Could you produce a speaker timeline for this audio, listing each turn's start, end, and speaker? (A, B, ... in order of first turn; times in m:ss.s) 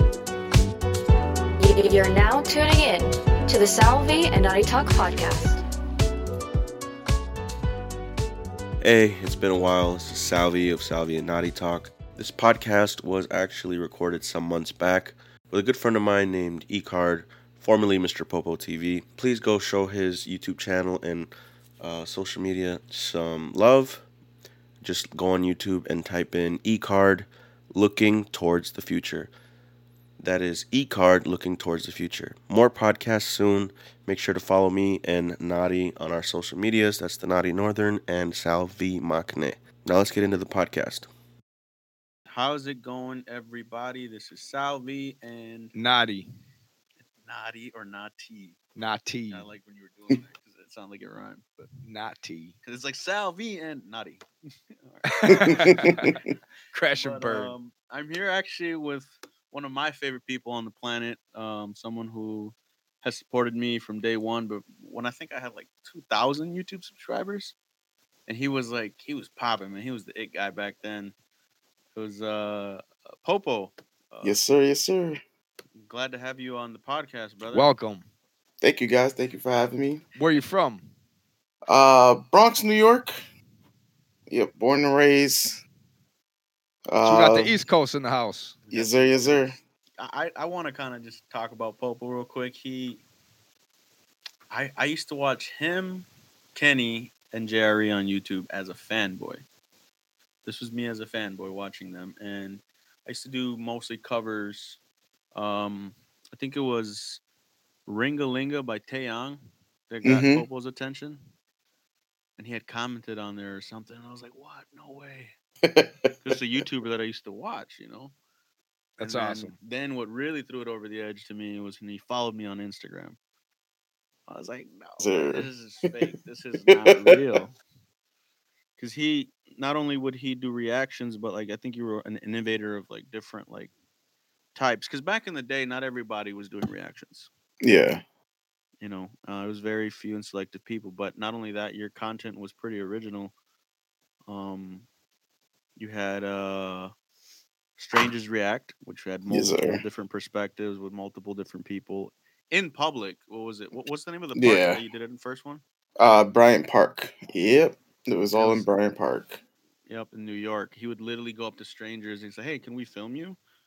0:01.6-0:05.6 A
0:08.8-0:24.1 B
0:24.8-0:29.3 B
0:30.2-0:41.1 B
0:42.3-0:45.7 C
0:45.8-0:46.3 D
0:47.2-0:48.6 C
0:48.8-0:49.5 D
0:49.3-0:51.7 C
0:51.8-0:52.6 D
0:52.6-0:55.8 C
0:55.1-0:56.2 D
0:55.5-0:56.1 E
0:56.7-0:57.5 D
0:57.0-1:07.6 C
1:08.3-1:11.1 C
1:11.9-1:14.4 C
1:14.2-1:15.2 E
1:15.9-1:17.7 C
1:17.5-1:18.0 D
1:18.6-1:20.0 E
1:20.2-1:20.9 D
1:21.7-1:23.2 E
1:24.3-1:25.6 E
1:26.9-1:27.6 E
1:27.0-1:28.6 D
1:28.7-1:33.0 C
1:28.7-1:29.5 E
1:34.5-1:39.4 C
1:40.4-1:44.8 C
1:45.3-1:47.2 C
1:47.9-1:51.2 C
1:50.0-1:50.4 E
1:52.4-1:55.4 C
1:55.6-1:56.1 E
1:56.2-1:58.1 C
1:59.0-1:59.6 D
1:59.0-2:03.2 C
2:04.3-2:07.6 C
2:05.0-2:05.5 E
2:06.7-2:07.2 E
2:08.8-2:13.7 C
2:14.6-2:17.3 C
2:17.6-2:18.0 E
2:18.8-2:23.3 C
2:24.3-2:24.9 C
2:25.8-2:26.9 C
2:27.8-2:35.6 C
2:29.3-2:29.8 E
2:34.4-2:34.8 E
2:36.0-2:39.4 E
2:38.4-2:38.7 C
2:39.9-2:43.4 C